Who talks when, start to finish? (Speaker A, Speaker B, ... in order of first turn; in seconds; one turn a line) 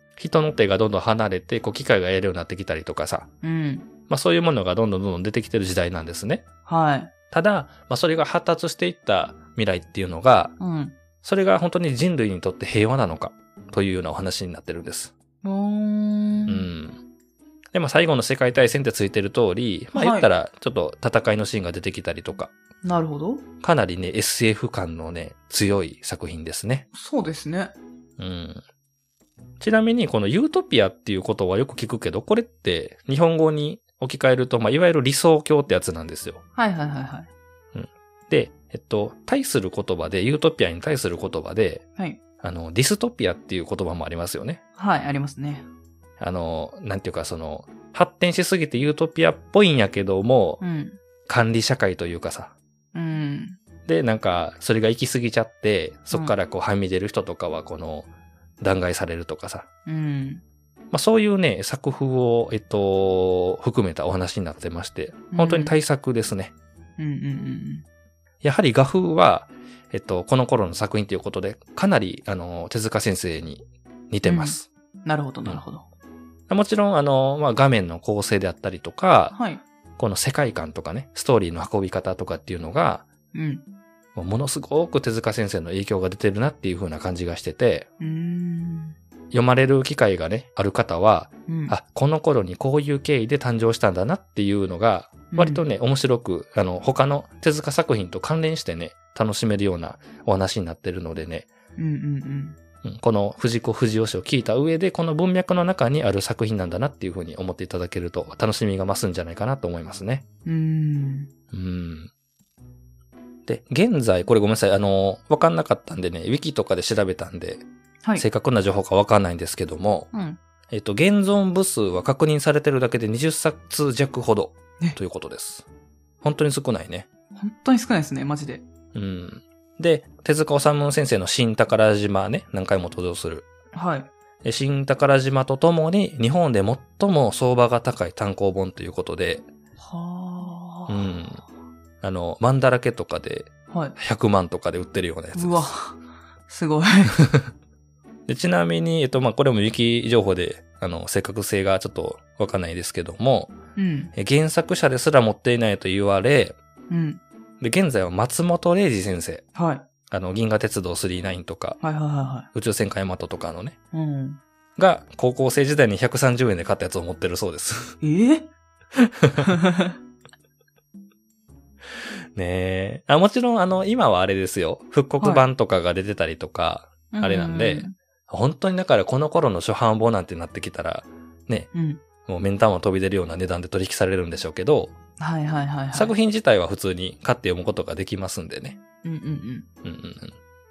Speaker A: 0.2-3.3
Speaker B: 3.4-3.9
Speaker A: 4.1-6.5
Speaker B: 6.7-7.1
Speaker A: 7.3-10.5
Speaker B: 10.6-10.9
Speaker A: 11.2-15.1
Speaker B: 15.4-16.6
Speaker A: 16.5-17.0
Speaker A: 17.7-22.5
Speaker B: 19.9-20.3
Speaker B: 22.8-23.4
Speaker A: 23.6-26.9
Speaker B: 26.9-27.7
Speaker A: 28.2-28.6
Speaker A: 29.6-36.4
Speaker B: 36.5-37.3
Speaker A: 37.7-41.8
Speaker A: 42.4-44.6
Speaker B: 44.8-45.6
Speaker A: 46.2-50.6
Speaker B: 50.6-51.0
Speaker A: 51.3-52.5
Speaker B: 52.9-53.6
Speaker A: 53.9-58.1
Speaker A: 58.6-59.7
Speaker B: 59.9-60.4
Speaker A: 60.9-66.5
Speaker B: 65.3-65.8
Speaker B: 67.0-67.8
Speaker A: 68.4-74.7
Speaker B: 74.2-75.8
Speaker A: 76.5-79.3
Speaker B: 79.3-79.6
Speaker A: 80.0-83.0
Speaker B: 83.3-83.6
Speaker A: 84.1-87.9
Speaker B: 88.0-89.0
Speaker A: 89.3-101.5
Speaker B: 91.5-91.7
Speaker B: 95.3-95.6
Speaker B: 101.8-102.6
Speaker A: 102.8-110.2
Speaker B: 110.4-111.3
Speaker A: 111.5-112.1
Speaker A: 113.5-117.6
Speaker A: 118.2-120.1
Speaker B: 120.1-120.4
Speaker A: 120.7-125.6
Speaker A: 126.2-127.1
Speaker B: 127.3-128.6
Speaker A: 128.9-133.5
Speaker B: 133.7-134.1
Speaker A: 134.4-139.5
Speaker B: 139.8-141.2
Speaker A: 140.9-141.4
Speaker A: 142.0-145.7
Speaker B: 143.7-143.9
Speaker B: 145.3-145.9
Speaker B: 146.5-147.2
Speaker A: 148.3-153.5
Speaker B: 153.8-154.1
Speaker A: 154.1-156.6
Speaker B: 156.9-157.2
Speaker A: 157.6-159.4
Speaker B: 159.5-159.8
Speaker A: 160.1-161.8
Speaker B: 161.8-162.5
Speaker A: 162.5-163.8
Speaker B: 163.9-164.4
Speaker A: 164.8-168.0
Speaker B: 168.0-168.5
Speaker A: 168.9-169.5
Speaker B: 169.4-169.9
Speaker A: 172.3-181.7
Speaker B: 175.2-175.4
Speaker B: 177.1-177.9
Speaker B: 181.7-182.0
Speaker A: 182.2-184.9
Speaker B: 185.2-186.1
Speaker A: 185.9-188.8
Speaker B: 189.0-189.7
Speaker A: 189.8-190.3